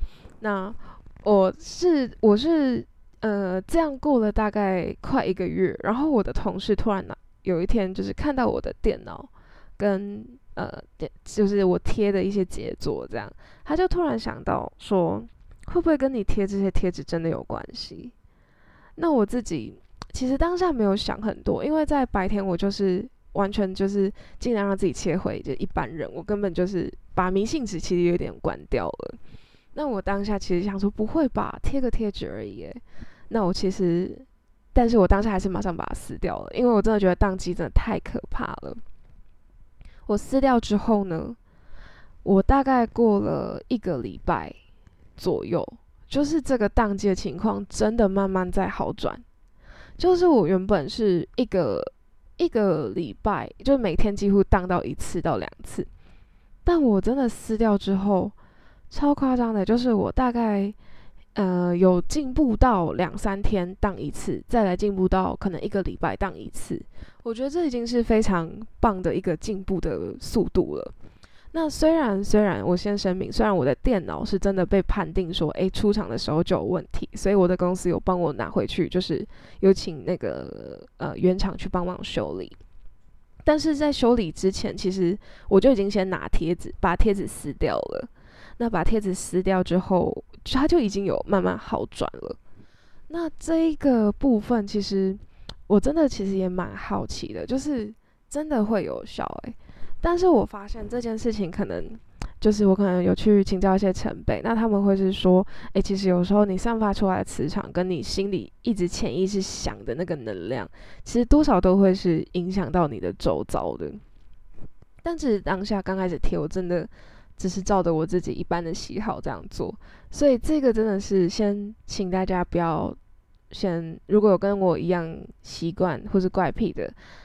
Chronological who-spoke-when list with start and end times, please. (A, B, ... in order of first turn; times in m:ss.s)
0:00.4-0:18.1 A
0:19.0-0:29.2 A
0:29.7-0:38.8 A
0:40.0-0:41.4 A
0:42.2-0:44.6 A
0:45.2-0:49.2 A
0:50.0-0:55.9 A
0:56.6-0:58.3 A
0:58.9-1:00.7 A
1:01.3-1:10.9 A
1:11.5-1:22.6 A
1:23.4-1:32.4 A
1:33.1-1:54.0 A
1:55.0-2:03.0 A
2:03.5-2:06.9 A